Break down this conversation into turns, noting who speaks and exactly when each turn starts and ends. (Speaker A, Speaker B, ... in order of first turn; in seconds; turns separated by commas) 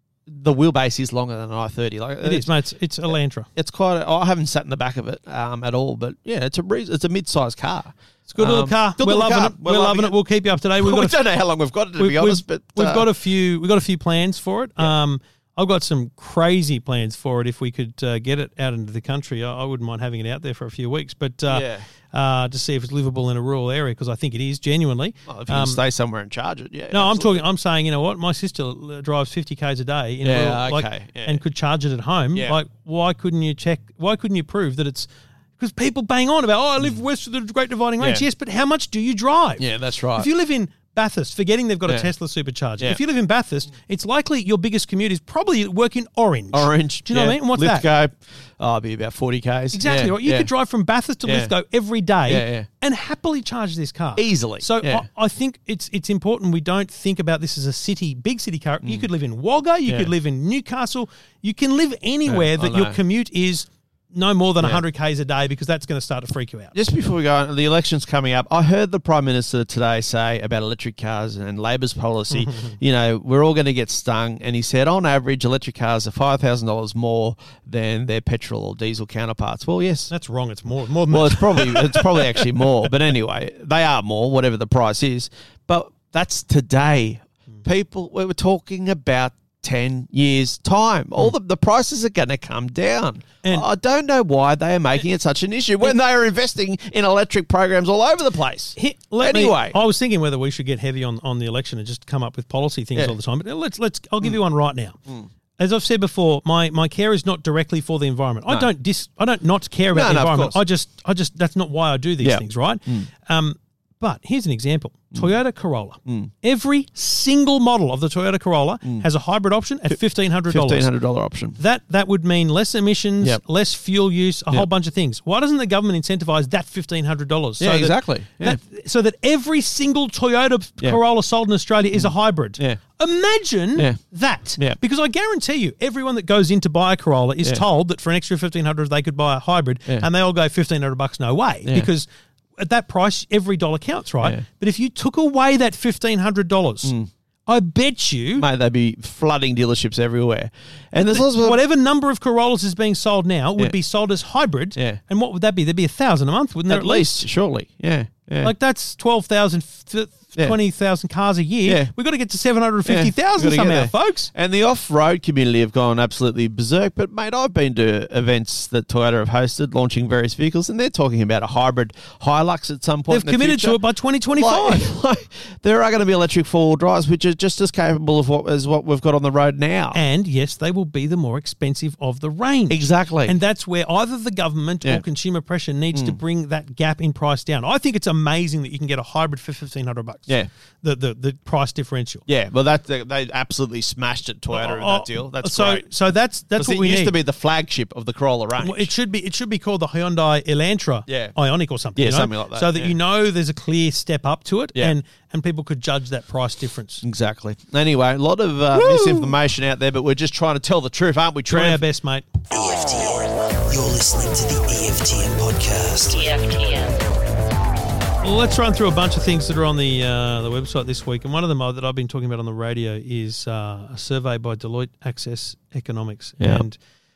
Speaker A: 0.3-2.5, Speaker B: 2.2-3.5, Speaker A: 3.5-10.1, Speaker B: 8.3-11.2, Speaker A: 10.8-13.1, Speaker B: 12.0-25.8, Speaker A: 21.5-21.9, Speaker A: 25.3-27.4, Speaker B: 26.9-47.9, Speaker A: 30.2-31.4, Speaker A: 39.6-40.3, Speaker A: 41.9-42.1, Speaker A: 46.5-50.5, Speaker B: 49.7-66.7, Speaker A: 51.2-51.5, Speaker A: 52.2-52.7, Speaker A: 54.2-55.0, Speaker A: 62.2-63.0, Speaker A: 66.7-80.1, Speaker B: 72.3-72.7, Speaker B: 80.1-82.5, Speaker A: 81.1-99.8, Speaker B: 98.8-105.0, Speaker B: 105.6-120.9, Speaker A: 109.9-110.6, Speaker A: 112.2-113.1, Speaker A: 116.0-116.3, Speaker A: 119.9-121.6, Speaker B: 121.6-146.9, Speaker A: 127.6-128.6, Speaker A: 131.9-132.8, Speaker A: 146.8-147.1, Speaker B: 147.5-148.4, Speaker A: 148.4-151.6, Speaker B: 151.1-157.2, Speaker A: 156.7-158.5, Speaker B: 158.4-164.3, Speaker A: 161.7-161.9, Speaker A: 162.8-173.8, Speaker B: 173.1-174.9, Speaker A: 174.4-180.0, Speaker B: 179.9-192.2, Speaker A: 182.7-183.3, Speaker A: 185.9-186.2, Speaker A: 192.3-195.9, Speaker B: 194.5-197.1, Speaker A: 196.6-198.9, Speaker B: 198.6-207.0, Speaker A: 201.1-201.3, Speaker A: 201.9-202.9, Speaker A: 207.0-211.8, Speaker B: 208.8-209.3, Speaker B: 211.5-212.2, Speaker C: 212.5-217.0, Speaker B: 218.2-226.8, Speaker A: 226.4-226.6